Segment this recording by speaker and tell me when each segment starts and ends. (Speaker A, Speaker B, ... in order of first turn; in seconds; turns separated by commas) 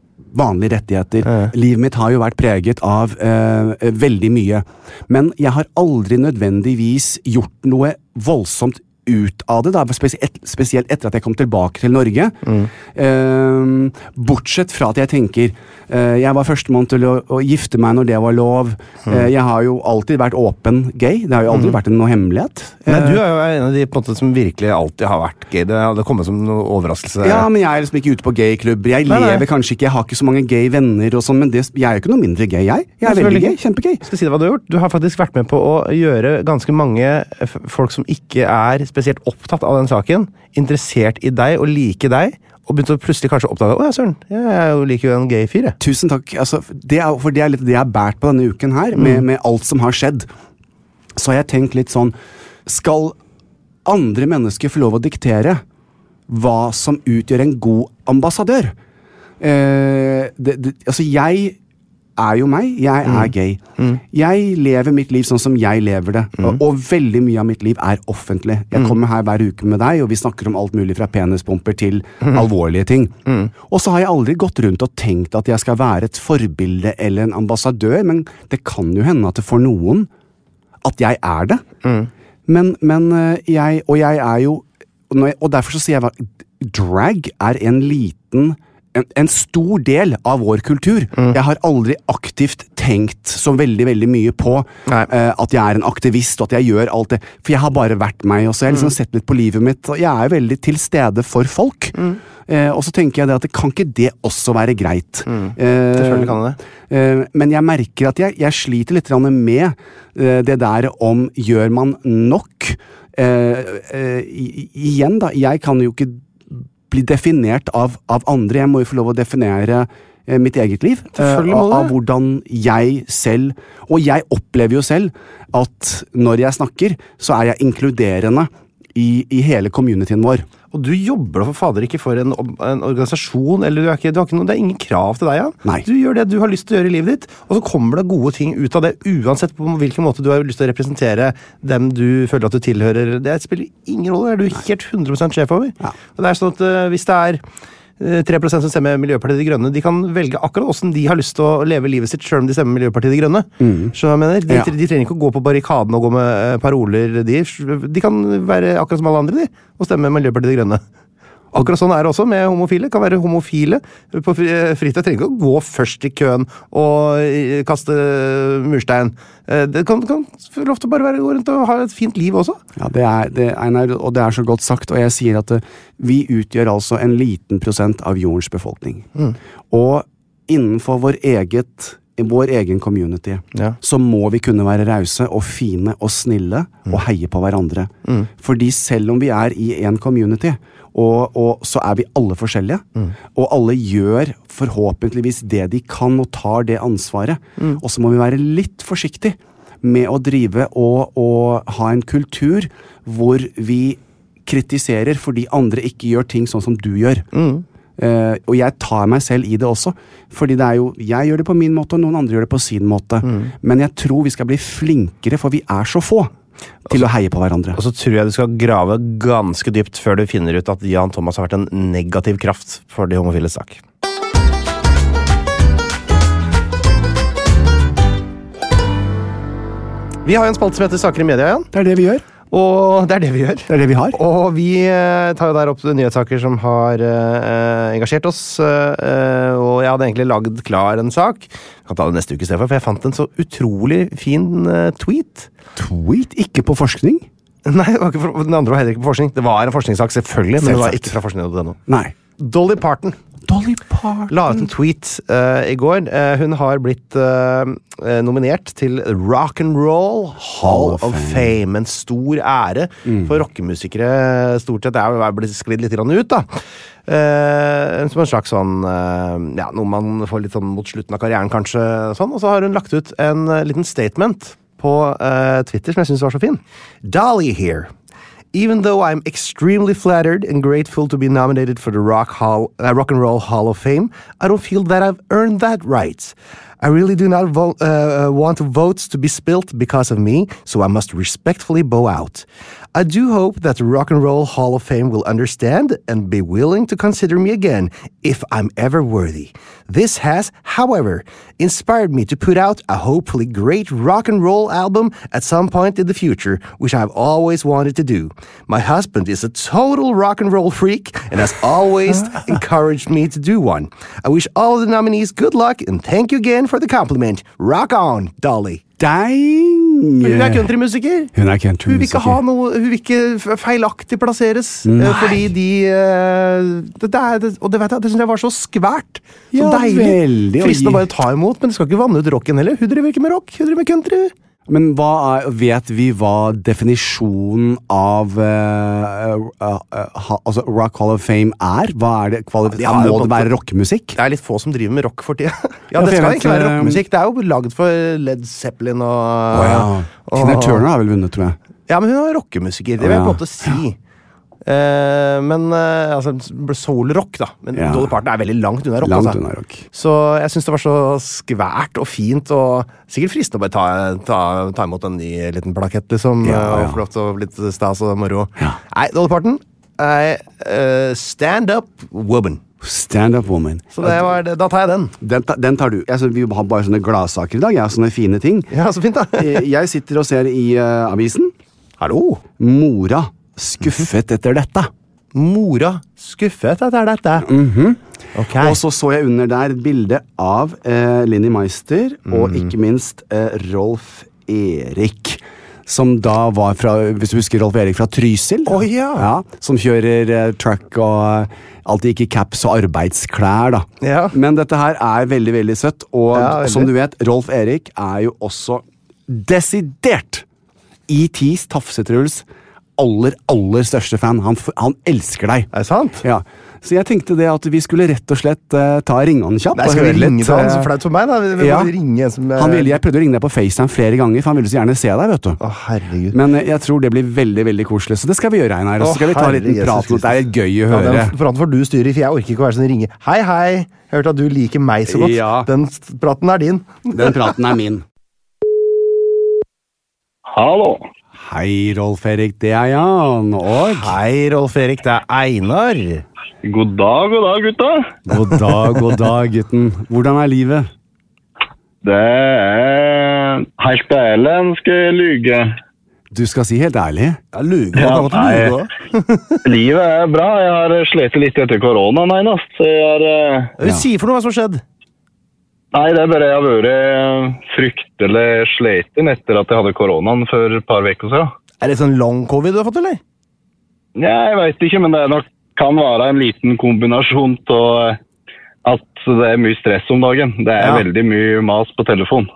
Speaker A: 0.3-23.2, Speaker B: 1.3-1.5, Speaker B: 21.5-21.8, Speaker B: 22.9-27.5, Speaker A: 27.2-34.0, Speaker B: 29.1-29.5, Speaker B: 33.0-45.8, Speaker A: 45.8-50.3, Speaker B: 49.0-49.2, Speaker A: 51.2-53.2, Speaker A: 53.9-55.6, Speaker A: 56.3-58.8, Speaker A: 59.4-61.6, Speaker A: 62.2-80.1, Speaker B: 63.0-64.0, Speaker A: 80.8-81.6, Speaker B: 81.8-82.1, Speaker A: 82.5-106.4, Speaker B: 105.3-106.6, Speaker A: 106.9-130.5, Speaker B: 121.2-121.9, Speaker B: 130.7-147.4, Speaker B: 148.0-160.8, Speaker A: 153.6-153.9, Speaker B: 161.5-172.6, Speaker A: 172.8-179.1, Speaker A: 179.7-207.3, Speaker B: 207.3-207.6, Speaker A: 208.0-216.3, Speaker B: 213.2-213.5, Speaker A: 216.9-217.8, Speaker B: 217.8-223.8, Speaker B: 230.2-231.7, Speaker A: 231.7-232.3, Speaker B: 232.5-245.5, Speaker A: 233.7-234.2, Speaker A: 245.8-247.3, Speaker B: 247.7-251.8, Speaker A: 250.6-251.2, Speaker A: 251.9-252.2, Speaker B: 252.4-253.2, Speaker A: 253.5-254.6, Speaker B: 254.3-266.5, Speaker A: 260.6-261.5, Speaker A: 263.1-263.4, Speaker B: 267.1-277.9, Speaker B: 278.5-318.8, Speaker A: 319.0-320.7, Speaker B: 320.2-321.3, Speaker A: 321.4-322.4, Speaker B: 321.9-334.3, Speaker A: 324.9-325.4, Speaker A: 329.5-331.0, Speaker A: 334.7-344.2, Speaker B: 342.7-343.5, Speaker B: 344.1-350.8, Speaker A: 345.9-347.0, Speaker A: 349.5-351.6, Speaker B: 351.9-354.0, Speaker A: 353.0-353.4, Speaker B: 354.6-359.4, Speaker A: 357.8-358.1, Speaker A: 359.0-359.9, Speaker B: 359.9-372.6, Speaker A: 366.4-367.0, Speaker A: 372.8-374.2, Speaker B: 373.9-375.1, Speaker A: 375.2-378.7, Speaker B: 378.7-379.6, Speaker A: 379.4-381.5, Speaker B: 382.0-382.4, Speaker A: 382.6-384.9, Speaker B: 385.3-387.5, Speaker A: 387.4-388.0, Speaker B: 388.4-388.8, Speaker A: 388.6-410.4, Speaker B: 392.3-392.7, Speaker B: 398.7-399.3, Speaker B: 404.0-404.4, Speaker B: 406.3-406.9, Speaker A: 411.1-412.4, Speaker A: 413.0-415.7, Speaker B: 415.7-416.2, Speaker A: 416.2-420.9, Speaker B: 419.8-423.0, Speaker A: 421.6-421.9, Speaker A: 422.6-425.6, Speaker B: 425.6-426.4, Speaker A: 426.3-431.4, Speaker B: 429.0-437.5, Speaker A: 435.1-435.7, Speaker A: 437.1-438.1, Speaker C: 440.5-441.1, Speaker A: 441.4-444.2, Speaker B: 443.8-446.2, Speaker C: 446.6-448.1, Speaker A: 448.3-450.9, Speaker C: 452.0-455.8, Speaker A: 456.3-457.4, Speaker B: 457.5-459.6, Speaker C: 457.9-458.8, Speaker C: 459.6-463.7, Speaker B: 463.8-464.8, Speaker C: 465.9-471.5, Speaker B: 471.8-473.2, Speaker C: 474.2-478.2, Speaker C: 478.9-482.5, Speaker B: 480.8-481.1